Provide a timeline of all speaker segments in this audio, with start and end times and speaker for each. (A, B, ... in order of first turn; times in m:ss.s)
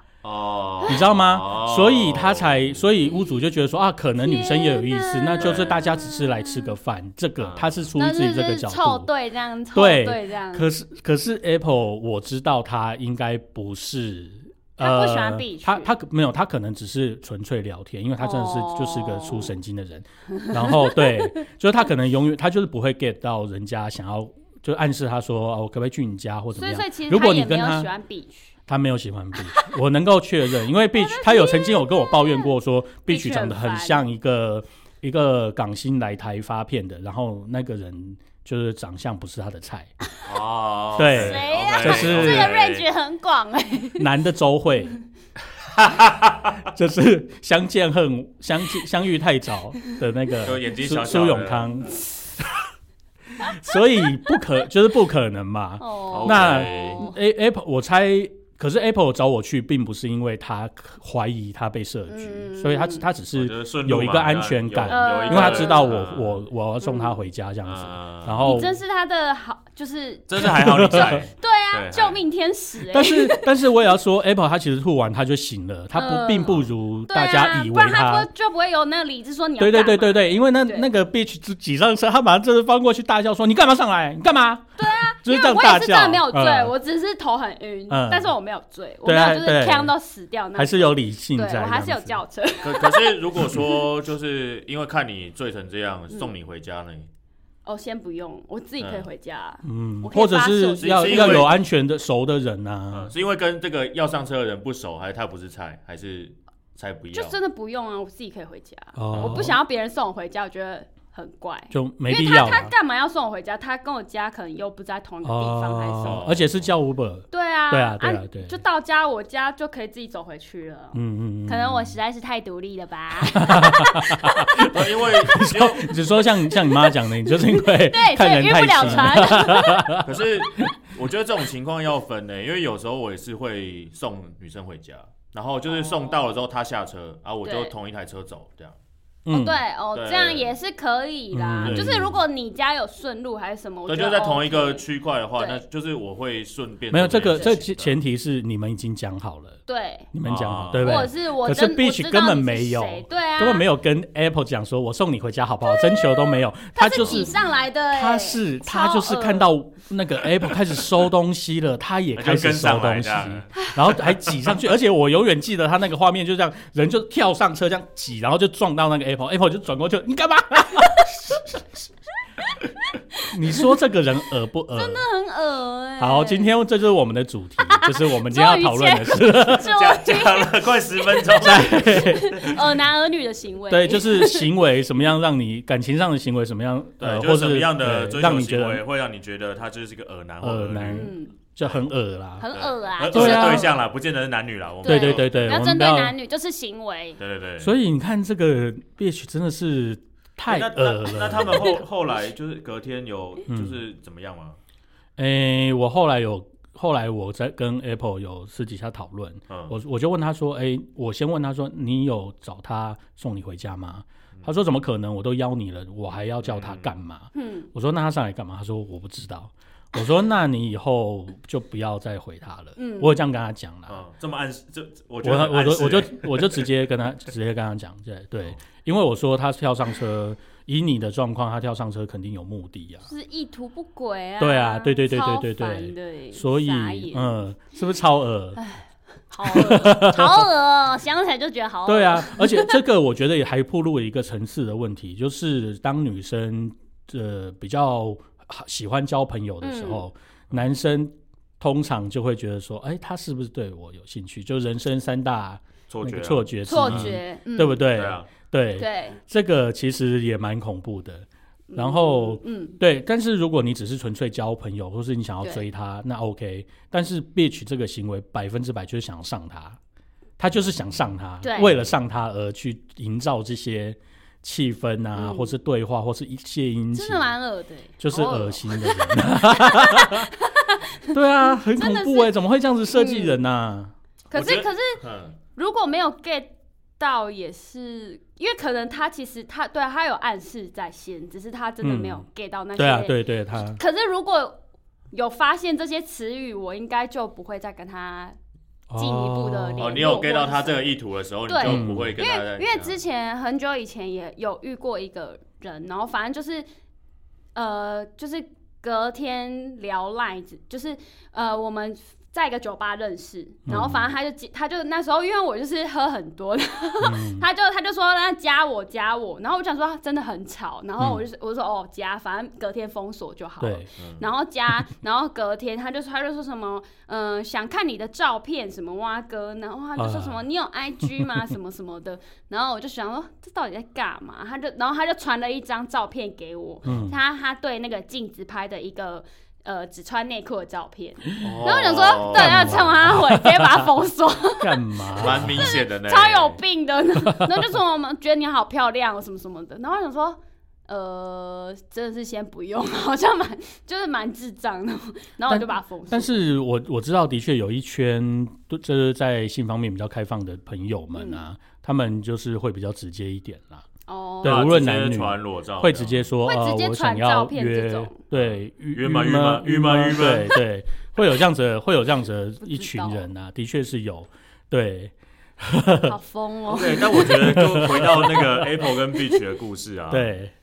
0:00.2-0:02.8 A
0:00.8-0:01.1 B
0:00.9-0:09.1 C
0:04.2-0:06.7 B
0:05.4-0:05.8 A
0:07.4-0:07.8 A
0:08.0-0:10.7 B
0:09.7-0:27.9 C
0:14.8-0:15.9 B
0:18.2-0:19.5 B
0:20.3-0:21.3 B
0:26.6-0:28.5 B
0:28.7-0:39.9 C
0:30.9-0:32.5 B
0:33.1-0:34.0 B
0:40.2-0:42.8 A
0:41.0-0:42.5 C
0:41.1-0:44.0 B
0:44.0-0:45.0 C
0:45.6-0:46.6 A
0:46.6-0:52.5 C
0:50.4-0:51.8 A
0:53.4-1:08.8 C
0:55.8-0:57.1 B
0:56.1-0:57.0 A
1:02.1-1:03.0 B
1:03.3-1:06.4 A
1:04.9-1:05.9 B
1:06.8-1:07.1 B
1:07.6-1:08.6 A
1:08.4-1:13.5 B
1:10.3-1:12.2 A
1:10.4-1:11.2 C
1:12.9-1:18.3 C
1:15.9-1:20.9 B
1:19.6-1:24.7 C
1:24.8-1:33.8 B
1:25.2-1:26.7 C
1:27.9-1:28.3 C
1:29.0-1:29.9 C
1:30.6-1:32.2 C
1:32.6-1:37.1 A
1:37.6-1:41.5 B
1:38.8-1:39.1 A
1:39.6-1:43.1 C
1:40.8-1:41.6 A
1:42.9-1:47.4 A
1:47.1-1:56.2 B
1:48.9-1:49.6 C
1:49.1-1:49.4 A
1:51.7-1:52.7 C
1:55.2-1:58.6 C
1:56.0-1:56.7 A
1:57.3-2:04.4 B
2:00.9-2:02.0 C
2:03.3-2:10.7 C
2:04.6-2:06.0 A
2:06.5-2:09.8 B
2:10.0-2:18.8 A
2:15.7-2:16.2 B
2:17.4-2:17.7 B
2:19.2-2:19.6 C
2:19.3-2:24.8 B
2:19.9-2:20.5 A
2:21.3-2:22.2 C
2:21.6-2:22.1 A
2:23.9-2:28.0 A
2:25.4-2:25.6 B
2:26.9-2:29.6 C
2:29.7-2:30.1 B
2:30.1-2:37.4 C
2:30.2-2:31.1 A
2:30.8-2:33.6 B
2:35.6-2:39.5 B
2:36.9-2:37.5 A
2:37.9-2:51.5 C
2:42.1-2:44.5 A
2:53.2-2:53.6 B
2:53.3-2:55.0 C
2:54.7-2:56.5 B
2:56.0-2:59.6 C
2:57.6-3:01.3 B
2:59.6-3:02.2 A
3:01.4-3:02.6 C
3:01.8-3:04.5 B
3:03.7-3:08.8 C
3:07.0-3:11.1 A
3:10.4-3:12.4 C
3:10.9-3:11.3 B
3:12.4-3:13.8 B
3:12.5-3:15.5 A
3:13.1-3:13.7 C
3:14.8-3:16.1 C
3:14.8-3:17.2 B
3:17.2-3:17.7 A
3:17.6-3:21.8 C
3:20.5-3:24.6 A
3:23.5-3:23.8 C
3:25.2-3:44.0 C
3:36.4-3:36.9 A
3:37.3-3:37.7 B
3:42.8-3:43.2 B
3:43.9-3:46.7 A
3:45.2-3:53.1 C
3:53.1-3:57.4 B
3:54.4-3:58.6 C
3:58.6-4:02.8 B
3:59.4-4:00.5 C
4:01.8-4:29.8 C
4:09.6-4:10.0 B
4:15.9-4:17.2 A
4:16.6-4:17.9 B
4:17.9-4:18.3 A
4:18.8-4:19.2 B
4:21.7-4:22.8 B
4:30.4-4:37.3 C
4:31.4-4:31.8 B
4:35.2-4:35.5 B
4:36.9-4:42.3 B
4:38.0-4:40.3 C
4:41.1-4:43.9 C
4:42.9-4:43.4 B
4:44.3-4:45.0 B
4:44.3-4:45.4 A
4:45.6-4:53.2 B
4:51.8-4:52.2 C
4:52.8-4:53.8 C
4:53.8-4:54.6 B
4:55.1-4:58.4 B
4:58.9-5:00.0 C
4:59.0-5:00.8 B
4:59.8-5:03.0 A
5:01.5-5:06.6 B
5:01.6-5:02.2 C
5:07.5-5:56.4 B
5:13.7-5:14.1 C
5:17.0-5:17.5 C
5:23.6-5:23.8 C
5:24.0-5:24.2 A
5:30.0-5:30.4 C
5:36.8-5:37.2 C
5:41.4-5:42.9 A
5:42.3-5:43.9 C
5:44.6-5:45.6 C
5:45.2-5:46.6 A
5:47.2-5:47.6 C
5:55.5-6:03.8 C
6:01.1-6:01.4 B
6:04.1-6:04.8 B
6:04.4-6:16.1 C
6:04.4-6:06.2 A
6:06.4-6:08.2 B
6:08.3-6:10.6 A
6:12.6-6:13.2 B
6:16.0-6:17.6 B
6:16.7-6:20.3 A
6:17.2-6:18.7 C
6:20.1-6:20.5 C